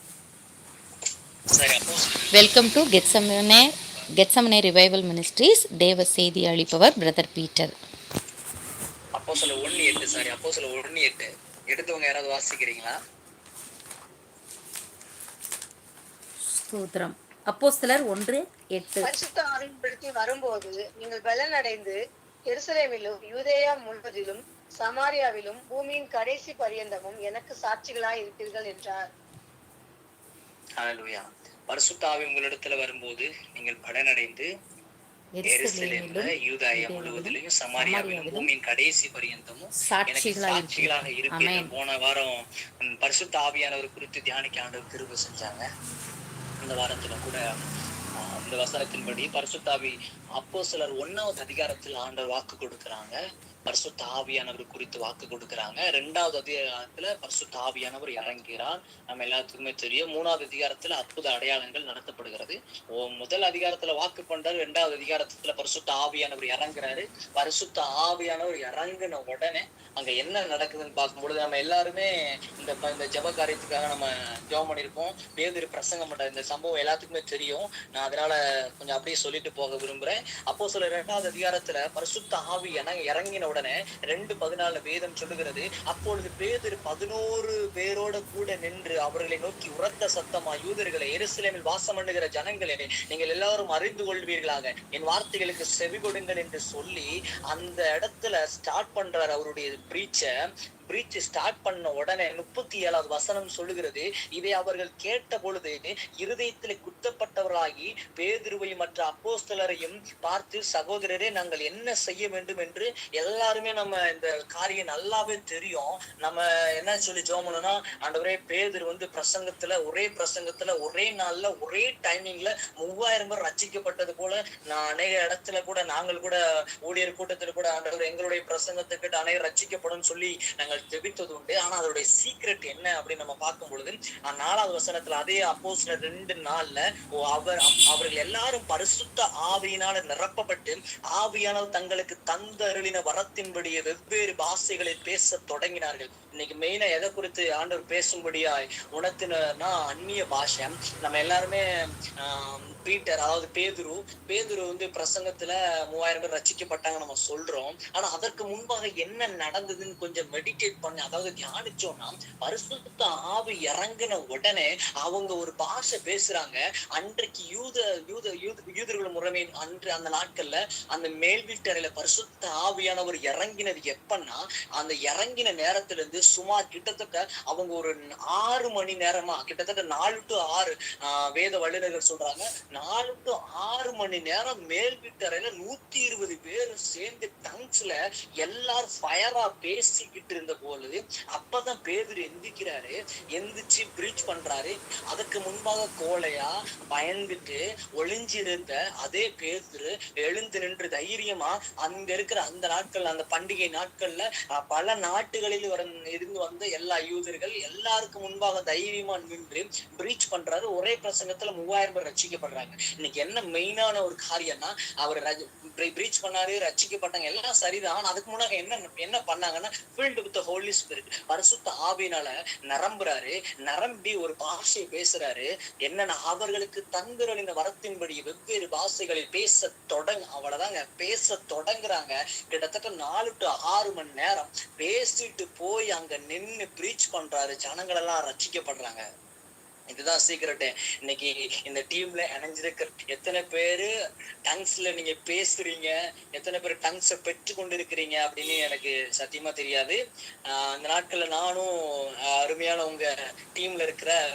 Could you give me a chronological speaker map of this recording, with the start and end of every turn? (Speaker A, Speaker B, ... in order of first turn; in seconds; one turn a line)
Speaker A: 1.5-4.1
Speaker B: 2.3-7.7
Speaker A: 9.2-13.0
Speaker B: 16.5-19.1
Speaker C: 19.0-22.0
Speaker C: 22.5-29.1
Speaker A: 30.8-34.5
Speaker B: 35.4-38.5
Speaker A: 35.5-45.7
Speaker B: 39.8-41.7
Speaker A: 46.6-47.4
Speaker A: 48.2-100.3
Speaker A: 100.9-151.7
Speaker A: 152.2-239.0
Speaker A: 239.9-243.9
Speaker A: 244.5-254.2